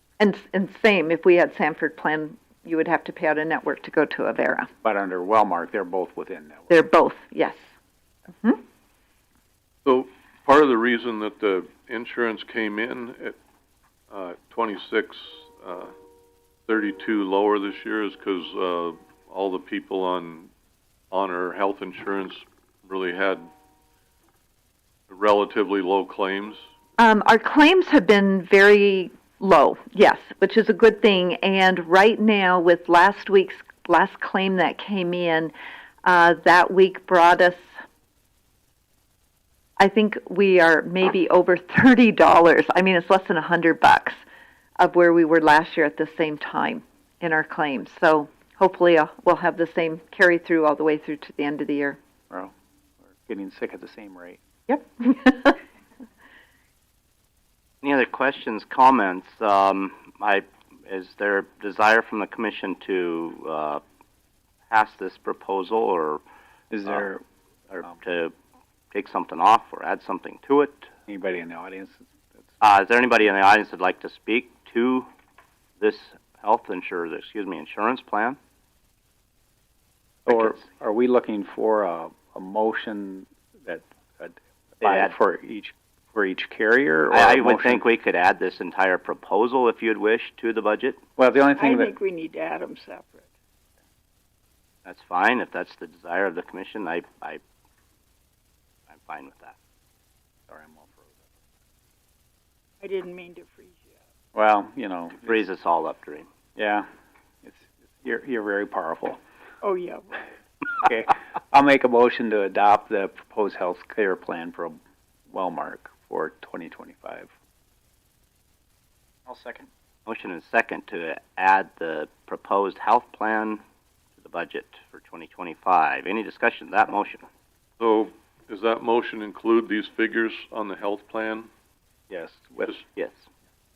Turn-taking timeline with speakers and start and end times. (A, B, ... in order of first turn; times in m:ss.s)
0:00.2-0:04.7 A
0:04.8-0:06.8 B
0:06.7-0:07.7 A
0:08.3-0:08.6 A
0:09.8-0:13.4 C
0:14.1-0:15.9 C
0:16.7-0:20.5 C
0:21.1-0:23.5 C
0:25.1-0:26.6 C
0:27.0-0:35.5 A
0:36.0-0:37.7 A
0:39.8-0:44.2 A
0:44.8-0:52.0 A
0:53.0-0:54.4 B
0:54.7-0:55.6 A
0:57.8-1:03.8 D
1:04.7-1:06.2 D
1:06.7-1:07.2 B
1:07.7-1:08.3 D
1:08.9-1:10.9 D
1:11.1-1:12.5 B
1:12.6-1:15.1 D
1:15.8-1:18.4 D
1:20.2-1:27.8 B
1:20.3-1:20.6 D
1:24.8-1:25.1 D
1:27.1-1:31.0 D
1:31.2-1:31.9 B
1:31.6-1:33.3 E
1:34.8-1:37.4 D
1:38.9-1:39.6 D
1:40.5-1:41.2 B
1:42.8-1:43.9 E
1:44.3-1:45.4 B
1:45.2-1:46.3 D
1:46.6-1:46.9 B
1:47.4-1:49.2 B
1:49.6-1:50.2 E
1:50.8-1:54.8 B
1:55.3-1:57.3 B
1:59.3-1:59.7 B
2:00.0-2:03.6 D
2:04.2-2:07.3 D
2:07.8-2:11.5 C
2:12.1-2:12.8 B